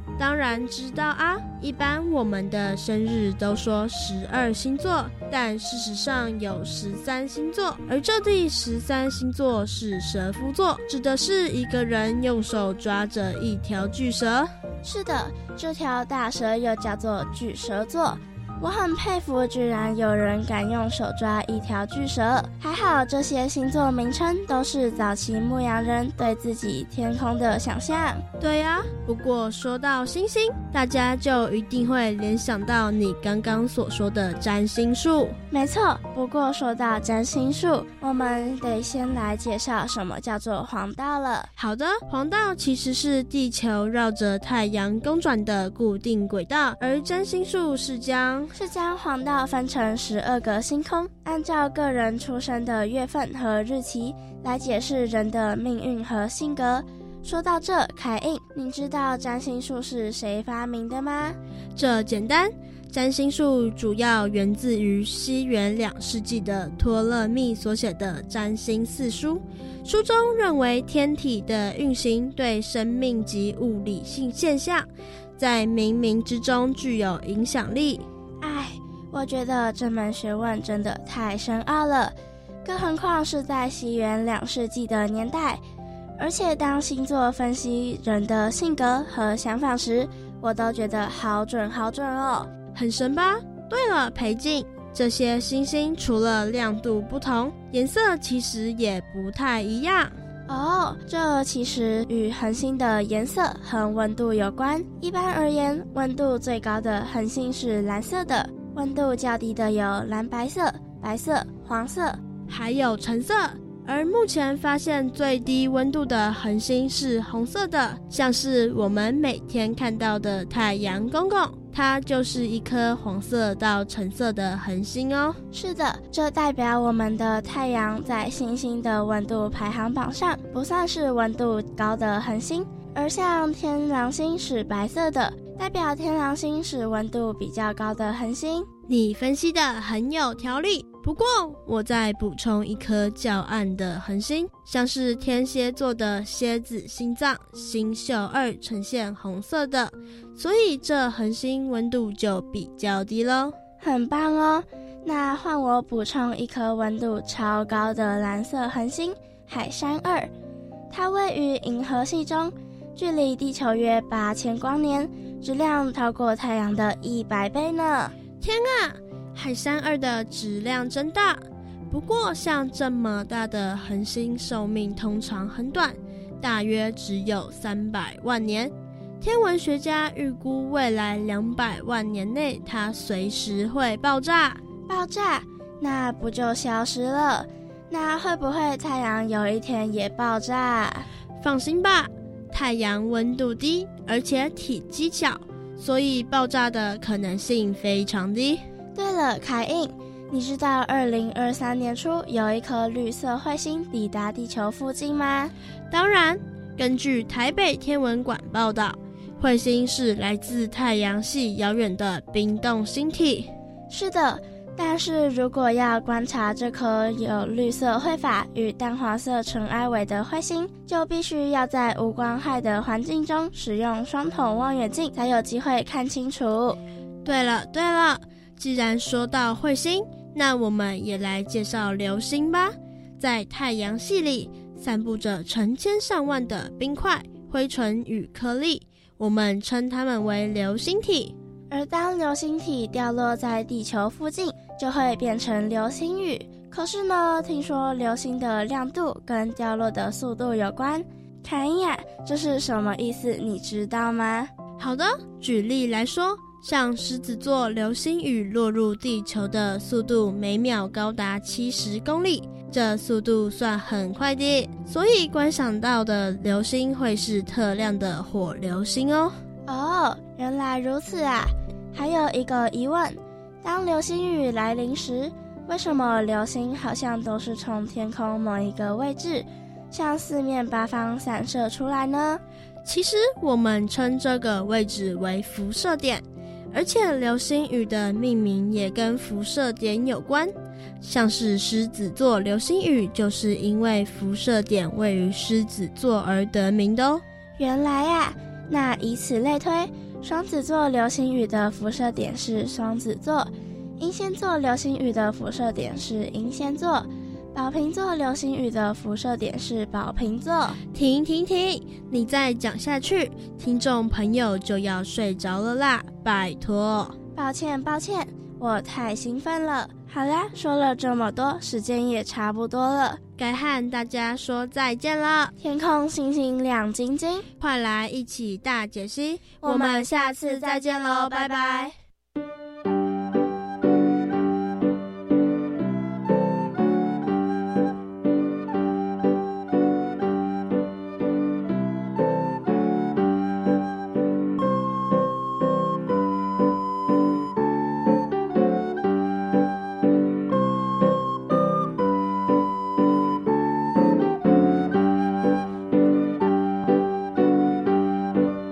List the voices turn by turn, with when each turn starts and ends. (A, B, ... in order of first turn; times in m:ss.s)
0:00.2-0:14.5 A
0:14.8-0:28.2 B
0:28.4-0:35.4 A
0:35.5-0:41.5 B
0:41.6-0:48.5 A
0:48.6-1:01.4 B
1:01.8-1:18.0 A
1:18.4-1:25.6 B
1:26.2-1:32.5 B
1:32.7-1:40.2 A
1:40.5-1:52.2 B
1:52.5-2:05.4 A
2:05.5-2:18.7 B
2:18.9-2:33.6 A
2:33.8-2:40.3 B
2:40.9-2:48.1 B
2:48.4-3:04.6 A
3:04.9-3:11.1 B
3:11.4-3:18.6 A
3:18.9-3:25.5 B
3:25.9-3:33.5 A
3:33.9-3:46.8 B
3:47.2-4:01.3 A
4:01.7-4:14.5 B
4:14.8-4:29.3 A
4:29.7-4:42.4 B
4:42.8-4:57.2 A
4:57.6-5:10.8 B
5:10.9-5:17.2 A
5:17.3-5:23.2 B
5:23.4-5:25.5 A
5:25.6-5:27.5 B
5:27.6-5:31.9 A
5:29.6-5:30.0 B